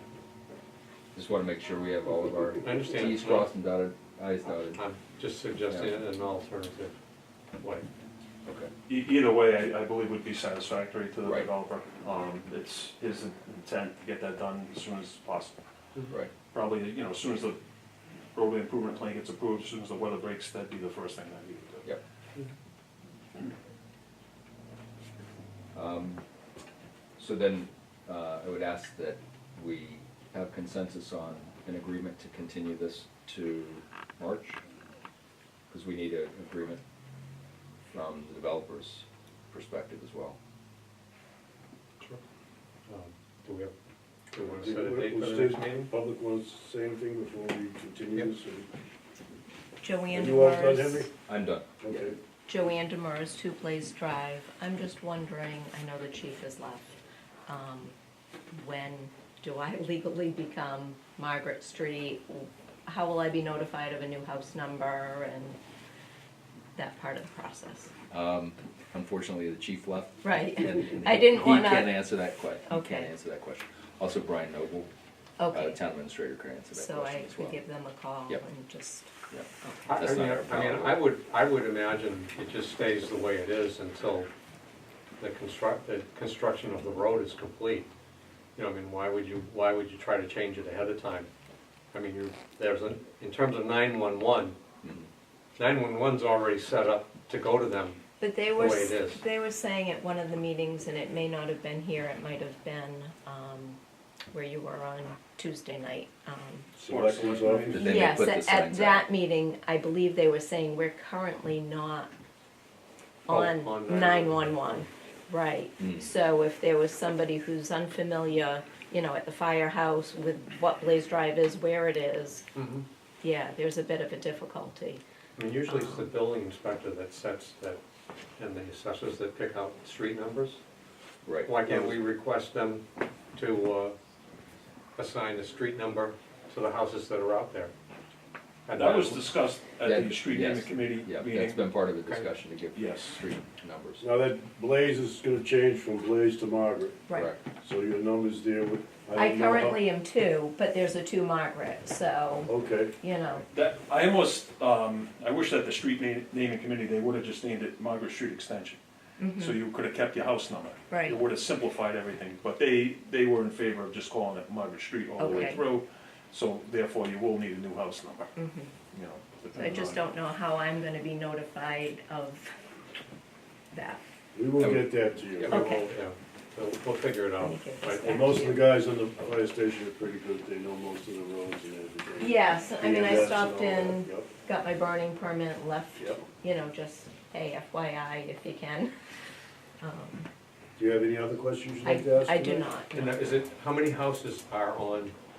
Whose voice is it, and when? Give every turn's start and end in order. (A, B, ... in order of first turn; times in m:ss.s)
0:01.1-0:04.8 A
0:02.6-0:03.5 B
0:04.7-0:06.9 B
0:05.7-0:06.0 A
0:07.6-0:07.9 B
0:08.4-0:08.7 A
0:08.9-0:15.6 C
0:11.2-0:11.5 A
0:16.5-0:17.6 C
0:18.3-0:21.9 C
0:25.7-0:26.2 A
0:27.2-0:34.6 A
0:35.7-0:36.8 A
0:37.9-0:40.4 A
0:42.9-0:43.7 B
0:44.3-0:45.9 B
0:44.5-0:48.7 D
0:49.8-0:51.1 E
0:50.1-0:51.1 D
0:51.3-0:52.1 A
0:51.8-0:52.2 D
0:52.5-0:56.9 E
0:57.5-0:57.9 E
0:58.5-1:05.6 E
1:06.7-1:07.9 E
1:08.1-1:14.9 A
1:10.2-1:12.1 E
1:12.6-1:13.1 E
1:15.4-1:15.8 E
1:15.5-1:17.6 A
1:16.7-1:20.0 E
1:19.3-1:21.0 A
1:19.8-1:24.3 B
1:25.2-1:27.9 B
1:28.6-1:31.3 B
1:31.9-1:34.6 B
1:34.8-1:35.1 A
1:35.6-1:39.2 B
1:38.2-1:43.8 E
1:44.3-1:46.7 E
1:46.7-1:48.0 D
1:46.8-1:48.0 C
1:47.7-1:49.1 A
1:47.7-1:52.1 E
1:53.2-2:02.4 E
1:53.3-1:54.8 B
1:55.8-1:56.1 A
2:02.5-2:02.8 B
2:03.2-2:05.0 E
2:05.4-2:07.8 B
2:05.7-2:06.0 E
2:08.4-2:10.6 B
2:11.2-2:11.6 A
2:11.4-2:14.0 B
2:15.0-2:17.7 B
2:18.6-2:19.2 B
2:18.8-2:21.6 C
2:19.8-2:24.0 A
2:22.7-2:23.2 C
2:24.0-2:29.8 D
2:27.1-2:27.4 E
2:27.1-2:27.4 A
2:29.1-2:33.4 E
2:32.5-2:33.0 D
2:33.5-2:38.8 C
2:39.2-2:39.6 E
2:39.3-2:48.3 C
2:40.9-2:41.2 E
2:45.2-2:45.6 E
2:48.4-2:48.7 E
2:48.9-2:50.0 C
2:49.5-2:52.5 E
2:53.7-2:54.0 E
2:54.3-2:55.6 D
2:54.6-2:55.6 A
2:55.4-2:58.6 B
2:55.5-2:55.9 E
2:57.4-2:58.7 E
2:58.0-3:04.3 D
3:02.2-3:08.9 E
3:06.0-3:06.2 D
3:09.8-3:10.3 E
3:10.8-3:12.7 D
3:11.8-3:13.2 E
3:12.9-3:15.1 B